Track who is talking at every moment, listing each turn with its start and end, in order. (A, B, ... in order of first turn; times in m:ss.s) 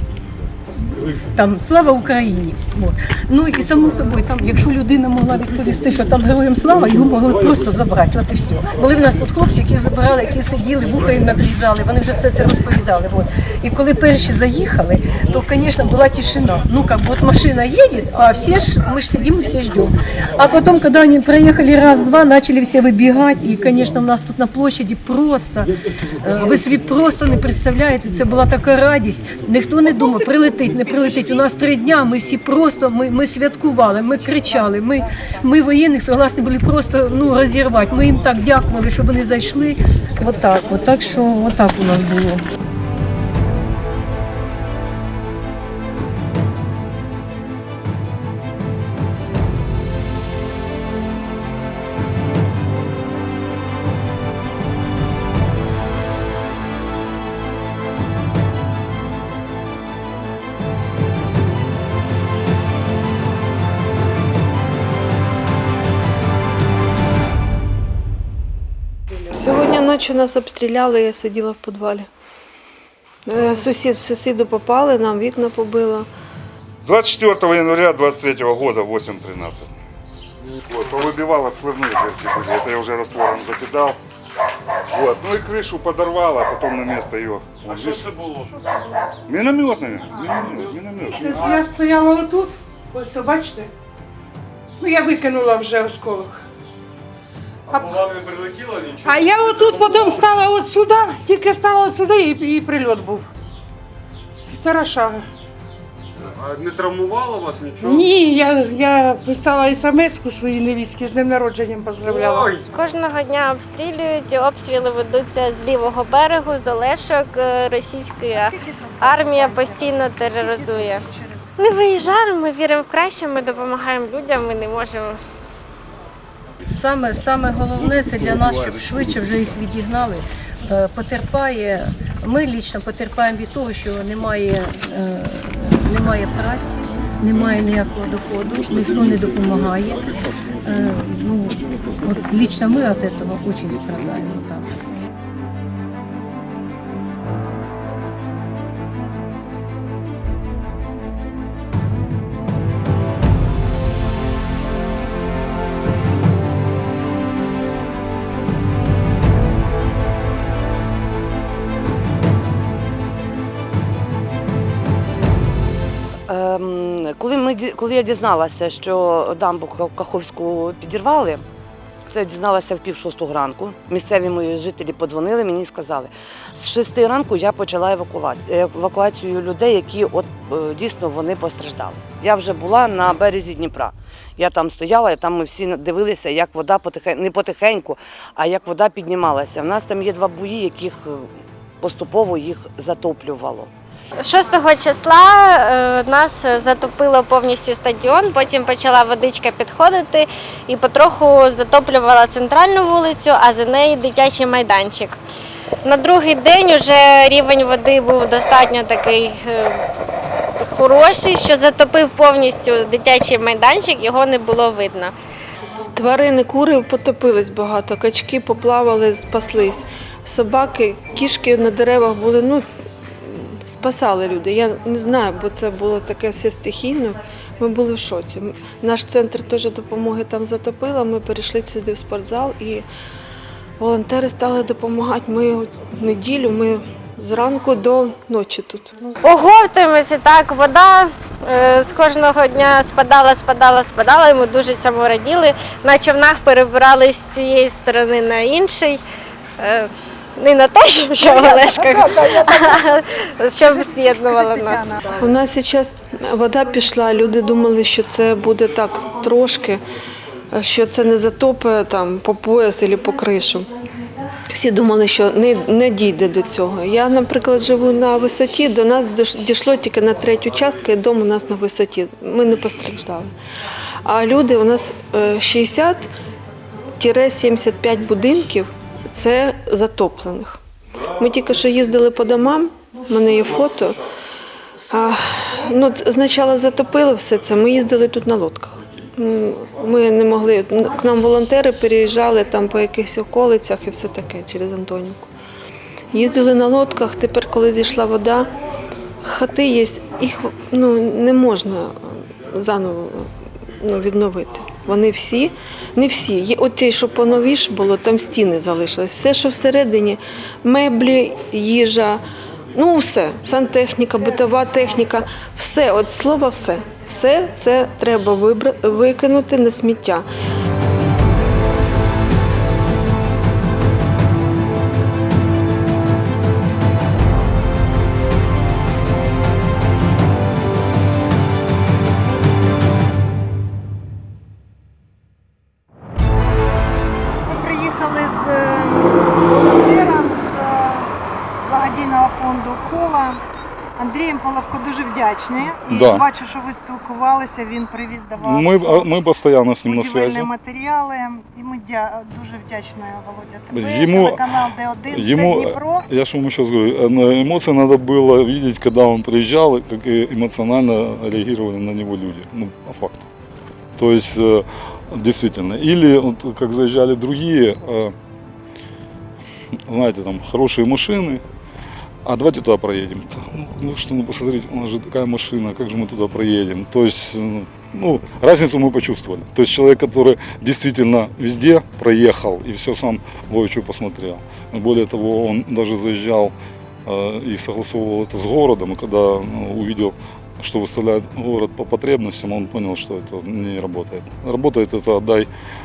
0:01.0-0:42.4 A
1:09.3-1:12.1 B
1:13.3-1:16.1 B
1:16.8-1:19.7 C
1:20.7-1:24.0 C
1:24.9-1:27.8 C
1:27.6-1:28.6 D
1:29.4-1:31.2 C
1:30.2-1:33.7 E
1:34.8-1:36.4 E
1:37.7-1:40.2 D
1:37.7-1:38.0 E
1:39.0-1:43.3 E
1:44.5-1:45.3 E
1:46.2-1:48.2 D
1:47.8-1:52.5 E
1:52.0-1:52.7 D
1:52.7-2:01.1 F
1:58.4-2:01.3 G
2:01.6-2:05.2 F
2:06.7-2:24.7 A
2:46.3-2:51.4 H
2:52.1-3:11.3 H
3:11.8-3:13.7 H
3:14.2-3:25.2 F
3:25.8-3:29.8 F
3:30.6-3:35.1 F
3:36.0-3:42.6 B
3:43.2-3:52.8 B
3:53.8-3:59.1 B
3:59.2-4:09.0 F
4:09.6-4:14.9 F
4:11.2-4:12.9 G
4:13.6-4:15.3 G
4:15.2-4:19.8 B
4:20.5-4:23.7 B
4:24.5-4:33.3 B
4:34.0-4:36.1 B
4:37.0-4:40.6 B
4:41.1-4:44.0 B
4:44.9-4:55.2 B
4:56.1-4:58.5 B
4:59.2-5:12.2 B
5:12.7-5:20.2 B
5:37.5-5:43.4 G
5:44.0-5:49.1 G
5:45.8-5:46.3 I
5:48.4-5:50.5 I
5:49.8-5:56.1 G
5:53.7-6:03.3 I
6:04.0-6:08.1 I
6:09.9-6:11.4 I
6:12.2-6:26.5 I
6:27.1-6:35.5 I